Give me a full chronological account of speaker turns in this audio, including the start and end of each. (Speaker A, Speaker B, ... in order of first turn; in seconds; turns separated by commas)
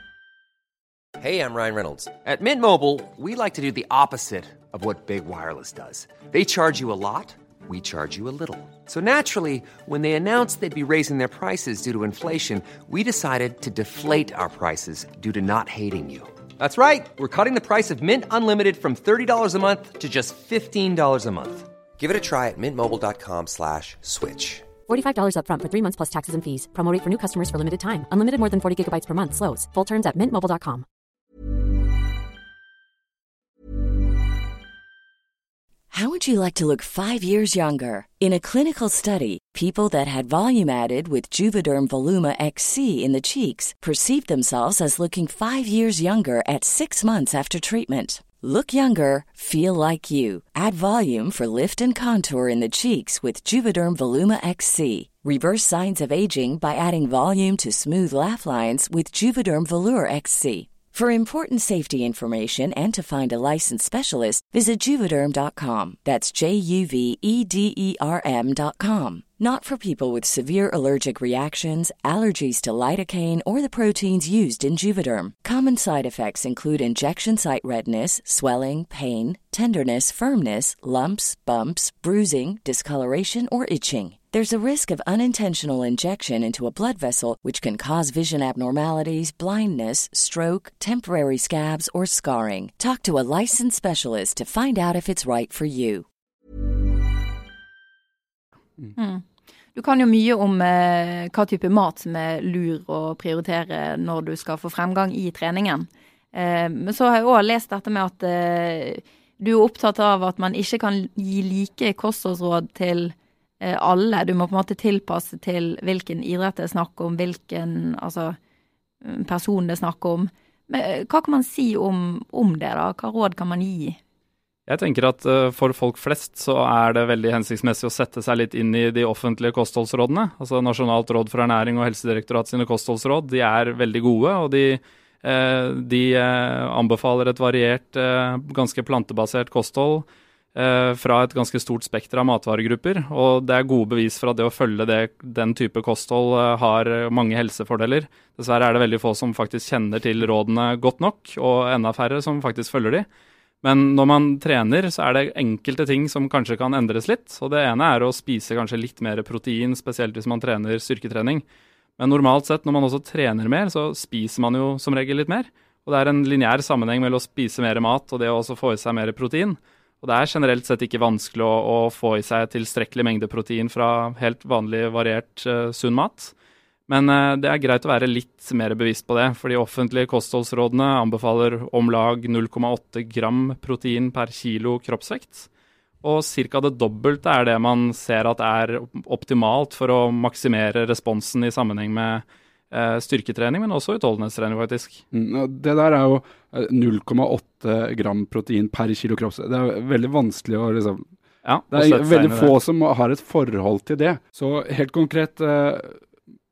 Speaker A: 1.2-24.8, Speaker B: 24.9-30.9, Speaker C: 35.9-96.0, Speaker D: 99.0-99.2, Speaker D: 99.7-118.4, Speaker D: 119.0-124.0, Speaker E: 124.7-153.1, Speaker E: 153.6-161.4, Speaker E: 162.0-176.3, Speaker E: 176.9-185.5, Speaker E: 186.0-195.0, Speaker F: 195.1-201.1, Speaker E: 201.4-202.5, Speaker F: 201.7-206.0